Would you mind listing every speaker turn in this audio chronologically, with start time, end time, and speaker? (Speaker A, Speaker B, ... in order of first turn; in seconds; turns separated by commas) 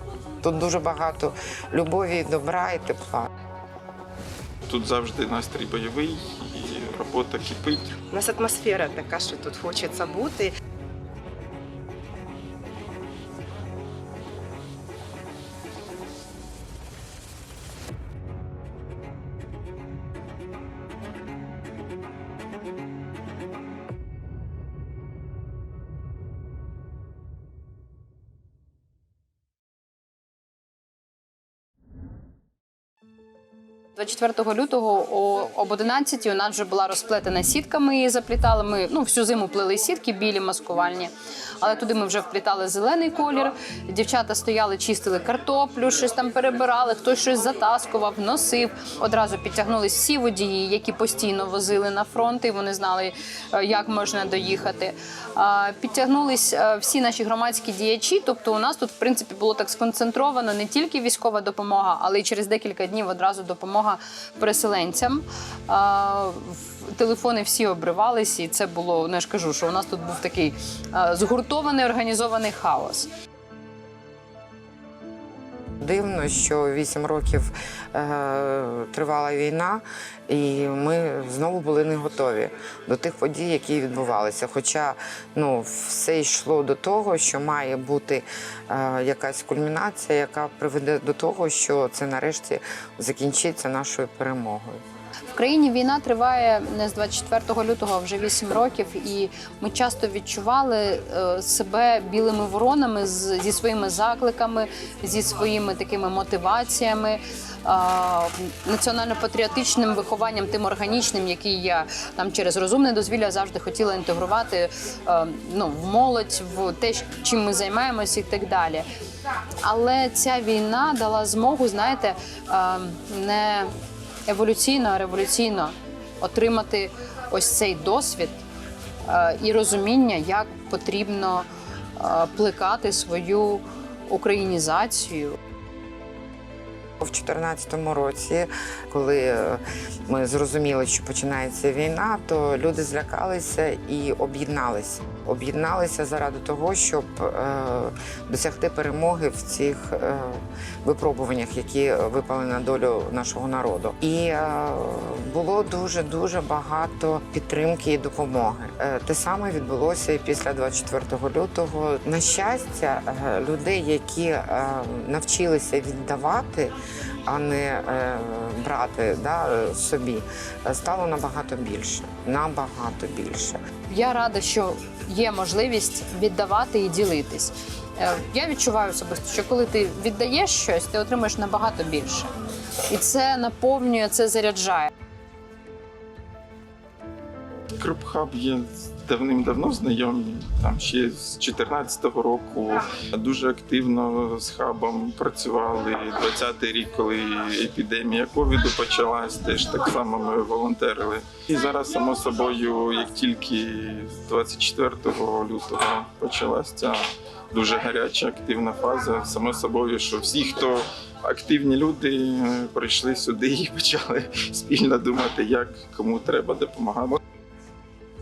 Speaker A: 0.4-3.3, Speaker B: 4.7-7.9, Speaker C: 8.1-10.5, Speaker D: 34.0-73.1, Speaker A: 75.8-94.8, Speaker D: 95.3-118.8, Speaker D: 119.6-123.7, Speaker D: 124.3-128.4, Speaker D: 129.1-135.4, Speaker A: 137.0-173.6, Speaker D: 173.9-182.3, Speaker D: 182.9-184.9, Speaker B: 187.8-217.2